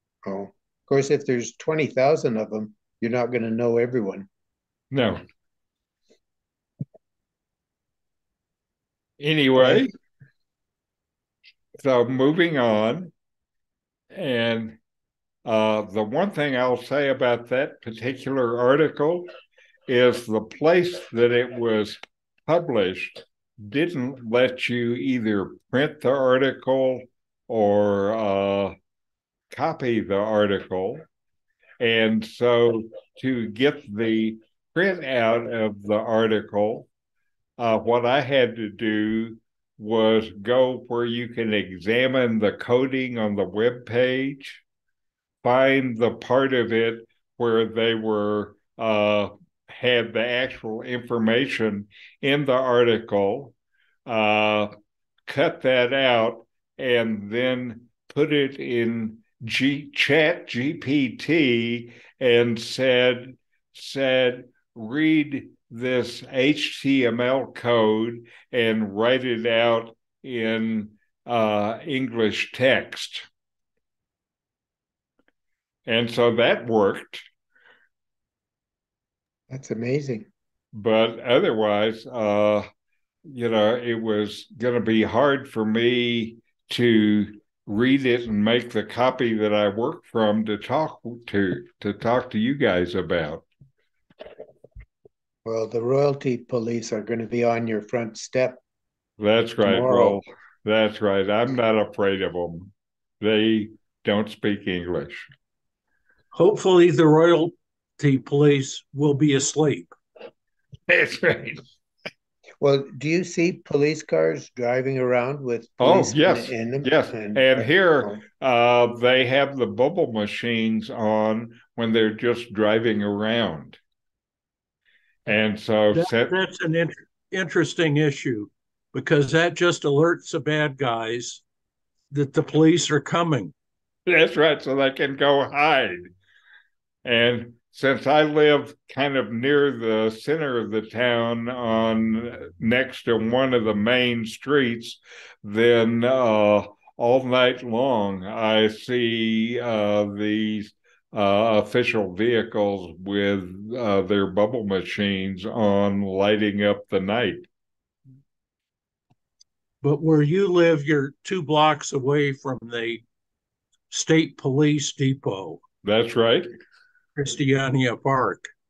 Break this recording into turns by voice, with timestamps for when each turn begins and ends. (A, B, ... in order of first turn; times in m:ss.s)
0:00.2-0:04.3 A
0:04.9-0:05.2 B
0:09.2-0:09.9 B
0:09.6-0:09.8 A
0:11.8-0:13.1 B
0:14.1-0:14.8 B
0:15.4-0:19.3 B
0:19.9-0:28.7 B
0:29.5-0:31.0 B
0:31.8-0:36.9 B
0:37.6-0:44.6 B
0:45.4-0:53.5 B
0:54.0-0:54.7 B
0:55.3-1:13.3 B
1:15.8-1:17.2 B
1:19.5-1:20.3 A
1:20.7-1:22.6 B
1:23.2-1:33.4 B
1:35.4-1:38.6 A
1:39.2-1:45.3 B
1:39.6-1:40.2 A
1:46.3-1:49.9 C
1:50.9-1:51.6 B
1:52.6-1:58.2 A
1:55.8-2:03.8 B
2:05.2-2:06.4 B
2:05.9-2:11.4 C
2:12.1-2:13.5 C
2:14.0-2:16.0 B
2:17.0-2:37.5 B
2:39.8-2:43.0 C
2:43.9-2:45.6 C
2:45.8-2:46.5 B
2:47.2-2:48.5 C